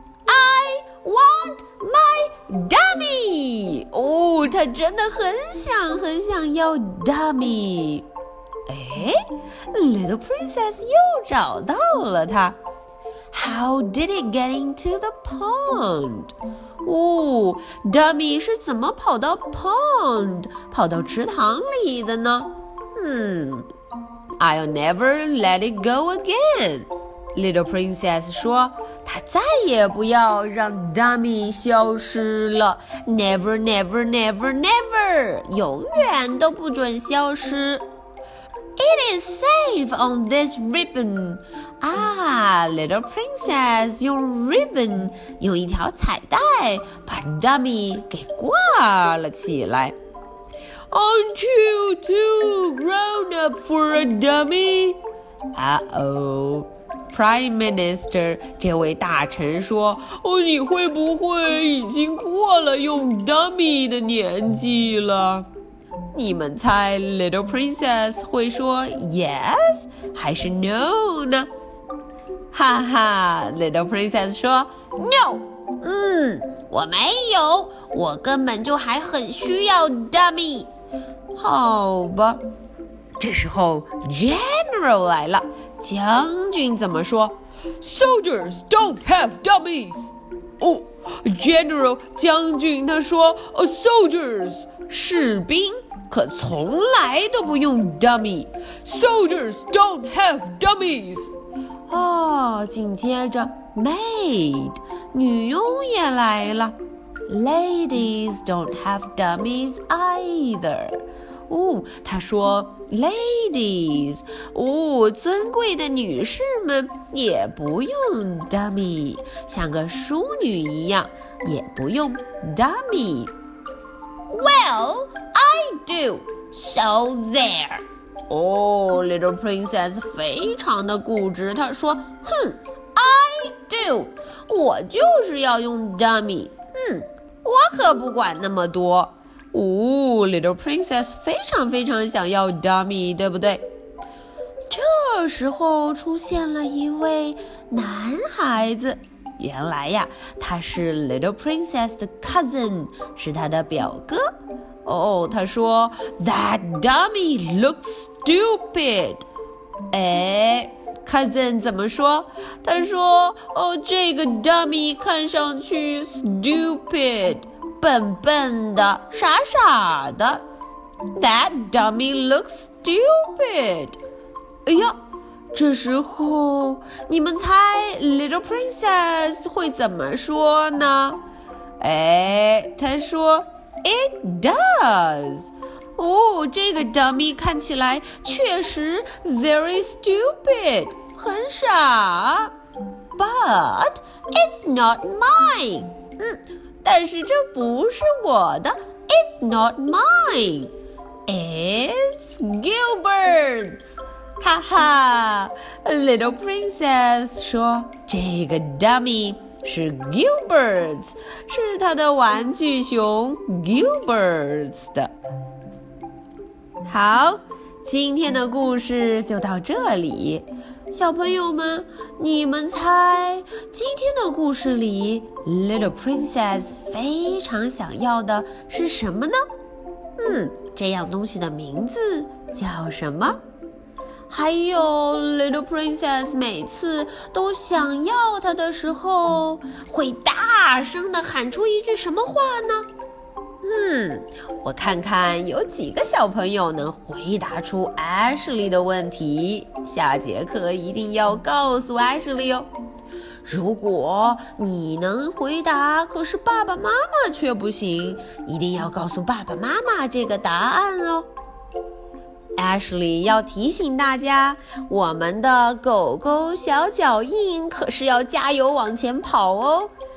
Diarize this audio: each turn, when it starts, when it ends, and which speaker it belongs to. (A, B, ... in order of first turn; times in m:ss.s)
0:00.2-0:08.1 A
0:08.7-0:12.6 A
0:13.3-0:23.7 A
0:24.4-0:37.8 A
0:38.8-0:50.0 A
0:50.9-0:55.0 A
0:55.5-1:05.5 A
1:06.1-1:11.5 A
1:12.5-1:20.7 A
1:21.3-1:22.4 A
1:23.2-1:41.3 A
1:41.9-1:46.7 A
1:47.3-2:03.3 A
2:04.3-2:23.6 A
2:24.7-2:34.3 A
2:34.8-2:39.2 A
2:39.9-2:50.4 A
2:51.1-2:54.0 A
2:54.6-2:55.0 A
2:55.5-3:01.2 A
3:01.8-3:12.5 A
3:13.2-3:20.7 A
3:21.2-3:35.1 A
3:36.8-3:49.4 A
3:50.2-3:53.4 A
3:54.3-4:02.9 A
4:03.6-4:12.7 A
4:13.4-4:21.3 A
4:22.6-4:29.9 A